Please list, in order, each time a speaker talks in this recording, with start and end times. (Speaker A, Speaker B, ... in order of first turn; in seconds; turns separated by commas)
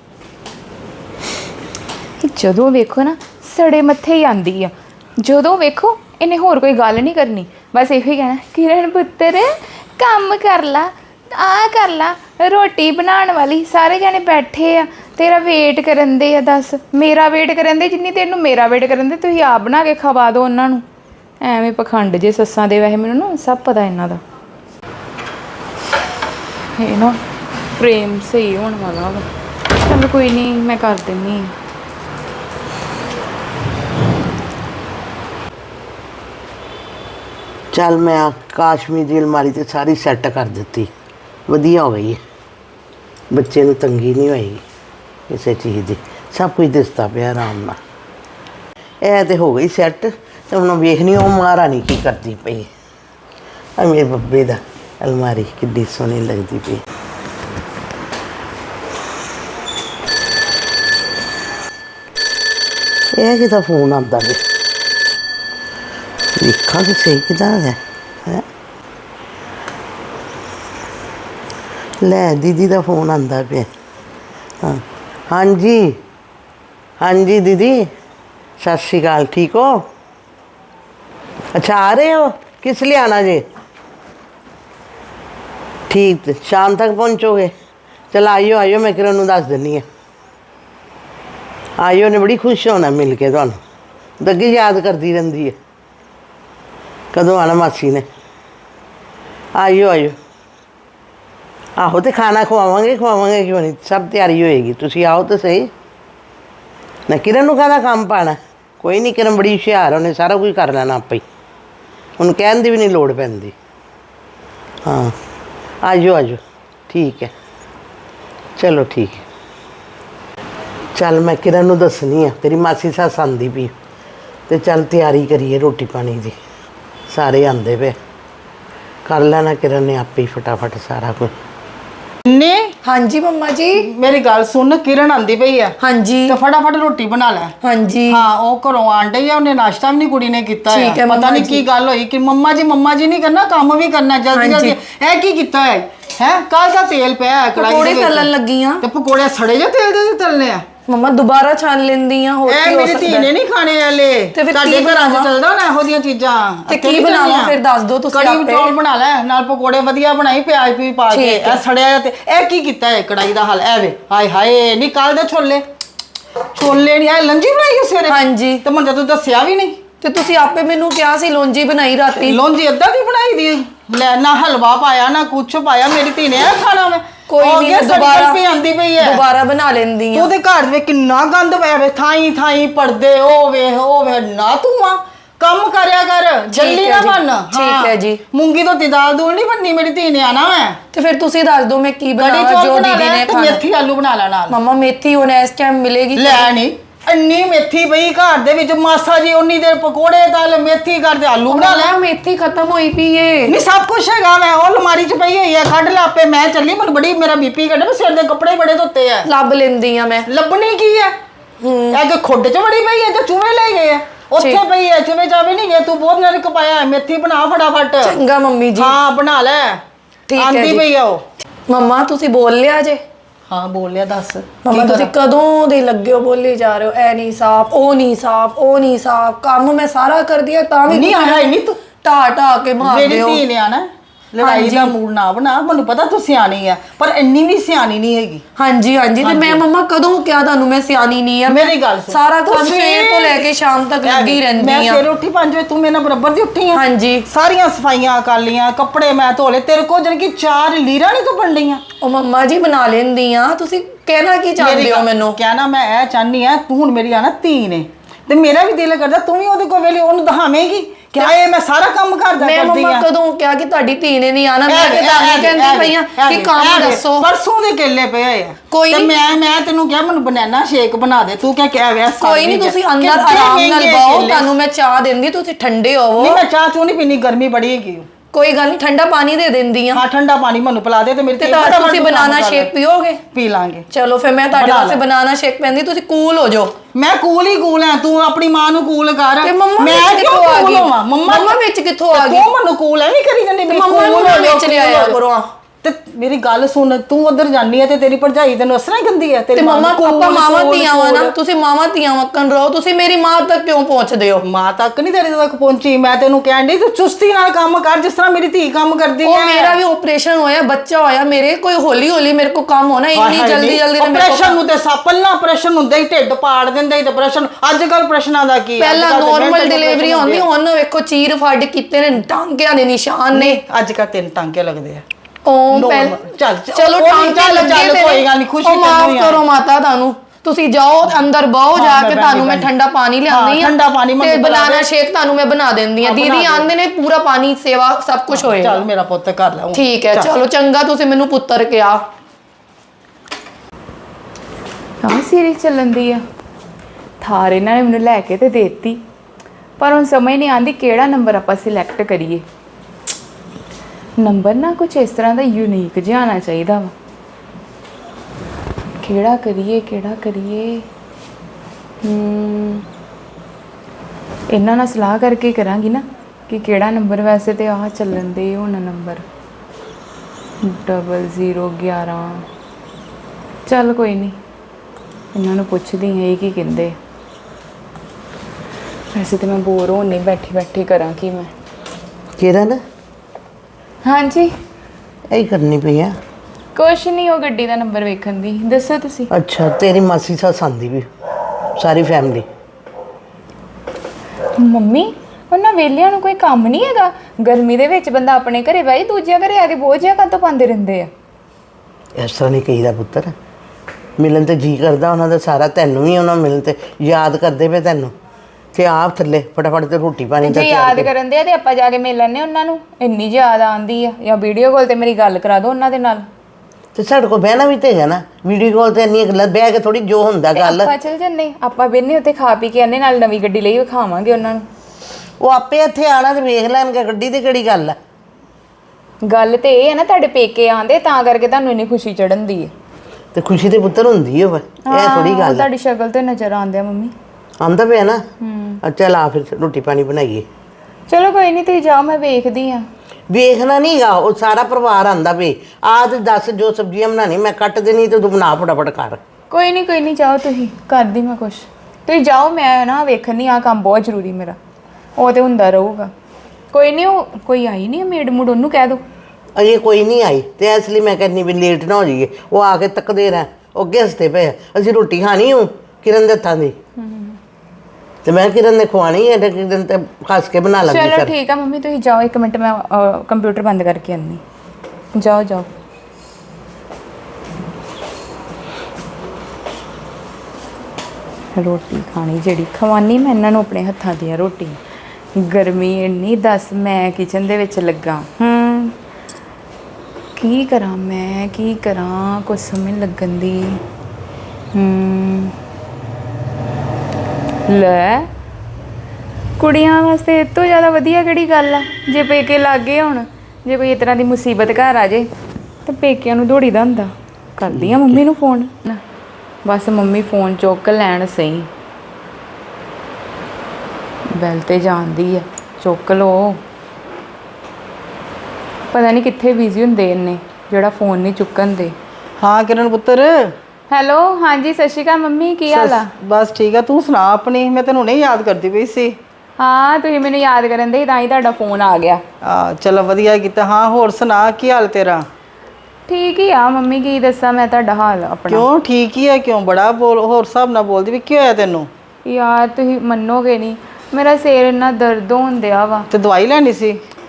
Speaker A: 2.2-20.8, Speaker A: 21.4-24.2, Speaker A: 26.8-31.5, Speaker B: 37.7-40.9, Speaker B: 41.5-42.2, Speaker B: 43.3-44.6, Speaker B: 45.3-47.8, Speaker B: 49.0-52.7, Speaker B: 53.8-56.8, Speaker B: 63.2-64.4, Speaker B: 66.4-68.5, Speaker B: 72.0-73.7, Speaker B: 74.6-76.0, Speaker B: 77.0-77.9, Speaker B: 78.6-79.9, Speaker B: 81.5-83.4, Speaker B: 85.9-87.5, Speaker B: 88.1-89.8, Speaker B: 91.8-93.6, Speaker B: 94.2-95.6, Speaker B: 97.1-98.1, Speaker B: 99.6-100.2, Speaker B: 101.8-105.7, Speaker B: 107.1-111.2, Speaker B: 112.2-113.5, Speaker B: 114.9-115.2, Speaker B: 115.8-117.3, Speaker B: 118.6-119.2, Speaker B: 121.0-123.7, Speaker B: 124.5-126.4, Speaker B: 127.1-128.0, Speaker B: 129.1-131.3, Speaker C: 132.3-132.7, Speaker D: 132.8-133.9, Speaker C: 133.8-135.8, Speaker D: 135.8-136.4, Speaker C: 136.3-137.6, Speaker D: 137.6-138.2, Speaker C: 138.1-148.3, Speaker D: 140.7-141.6, Speaker D: 144.3-144.8, Speaker D: 147.6-148.8, Speaker C: 148.8-150.7, Speaker D: 150.9-153.3, Speaker C: 152.5-157.6, Speaker D: 154.3-155.3, Speaker D: 156.7-158.8, Speaker C: 158.1-165.7, Speaker D: 161.1-161.6, Speaker C: 166.5-169.8, Speaker D: 168.1-168.6, Speaker D: 170.0-172.4, Speaker C: 172.2-179.2, Speaker D: 177.3-178.4, Speaker D: 179.0-180.3, Speaker C: 180.1-190.8, Speaker D: 186.5-188.2, Speaker D: 190.9-193.6, Speaker C: 192.2-194.6, Speaker D: 194.5-196.5, Speaker C: 196.2-202.0, Speaker D: 201.5-203.6, Speaker C: 203.5-209.3, Speaker D: 209.2-210.3, Speaker C: 210.3-211.2, Speaker D: 211.6-212.0, Speaker C: 211.9-218.2, Speaker D: 218.0-219.0, Speaker C: 218.8-219.8, Speaker D: 220.3-220.8, Speaker C: 220.4-221.2, Speaker D: 221.7-223.0, Speaker C: 223.5-225.1, Speaker D: 224.7-233.4, Speaker C: 230.9-231.8, Speaker C: 232.8-238.4, Speaker D: 234.4-234.9, Speaker D: 238.6-245.0, Speaker C: 239.2-239.6, Speaker C: 241.5-243.5, Speaker C: 244.0-251.8, Speaker D: 246.7-247.3, Speaker D: 252.0-255.4, Speaker C: 254.6-263.1, Speaker D: 262.4-267.3, Speaker C: 264.7-274.5, Speaker D: 268.7-269.1, Speaker D: 272.2-276.4, Speaker C: 276.2-278.1, Speaker D: 278.3-280.0, Speaker C: 279.9-282.7, Speaker D: 281.4-283.2, Speaker C: 283.3-283.9, Speaker D: 283.9-286.8, Speaker C: 284.5-285.0, Speaker C: 286.9-291.6, Speaker D: 289.4-292.5, Speaker C: 292.1-295.2, Speaker D: 293.7-295.5, Speaker C: 295.8-301.4, Speaker D: 299.6-304.4, Speaker C: 304.4-309.8, Speaker D: 309.2-314.6, Speaker C: 313.1-320.5, Speaker D: 318.8-323.6, Speaker C: 323.3-325.0, Speaker D: 325.4-338.8, Speaker C: 325.7-329.4, Speaker C: 331.8-332.7, Speaker C: 333.3-334.9, Speaker C: 336.0-336.7, Speaker C: 338.3-340.3, Speaker D: 339.7-342.0, Speaker A: 345.0-346.2, Speaker A: 347.2-349.0, Speaker A: 349.8-352.4, Speaker A: 354.2-356.9, Speaker A: 359.0-360.9, Speaker A: 362.0-362.9, Speaker A: 364.5-369.2, Speaker A: 370.6-372.5, Speaker A: 373.7-374.4, Speaker A: 375.4-376.9, Speaker A: 379.1-381.5, Speaker B: 382.4-382.8, Speaker A: 384.0-384.5, Speaker B: 385.3-386.1, Speaker A: 386.8-389.3, Speaker B: 389.3-391.1, Speaker B: 391.8-392.5, Speaker A: 394.6-401.1, Speaker B: 402.2-403.3, Speaker B: 404.2-408.1, Speaker B: 408.7-411.1, Speaker A: 410.4-416.3, Speaker B: 416.9-420.9, Speaker A: 420.6-424.6, Speaker B: 425.4-428.0, Speaker A: 429.2-432.7, Speaker B: 433.3-435.7, Speaker A: 434.9-437.1, Speaker B: 437.6-438.2, Speaker A: 438.4-438.8, Speaker B: 438.8-440.4, Speaker A: 441.1-442.8, Speaker B: 443.3-449.2, Speaker A: 449.5-454.6, Speaker A: 455.2-456.1, Speaker A: 456.7-459.0, Speaker B: 459.6-466.7, Speaker A: 467.0-467.4, Speaker B: 468.2-471.3, Speaker A: 470.9-474.4, Speaker A: 475.1-475.7, Speaker A: 481.6-484.8, Speaker A: 485.4-488.9, Speaker A: 490.4-493.8, Speaker A: 494.7-495.6, Speaker A: 497.7-498.3, Speaker A: 499.6-505.3, Speaker A: 505.9-509.0, Speaker B: 507.8-508.0, Speaker A: 509.6-511.7, Speaker A: 514.3-516.6, Speaker A: 518.9-521.9, Speaker C: 522.4-523.5, Speaker A: 523.9-526.1, Speaker C: 525.7-529.2, Speaker A: 529.6-532.2, Speaker C: 532.4-535.3, Speaker A: 536.1-538.7, Speaker C: 538.5-541.9, Speaker A: 542.2-546.1, Speaker C: 546.1-547.0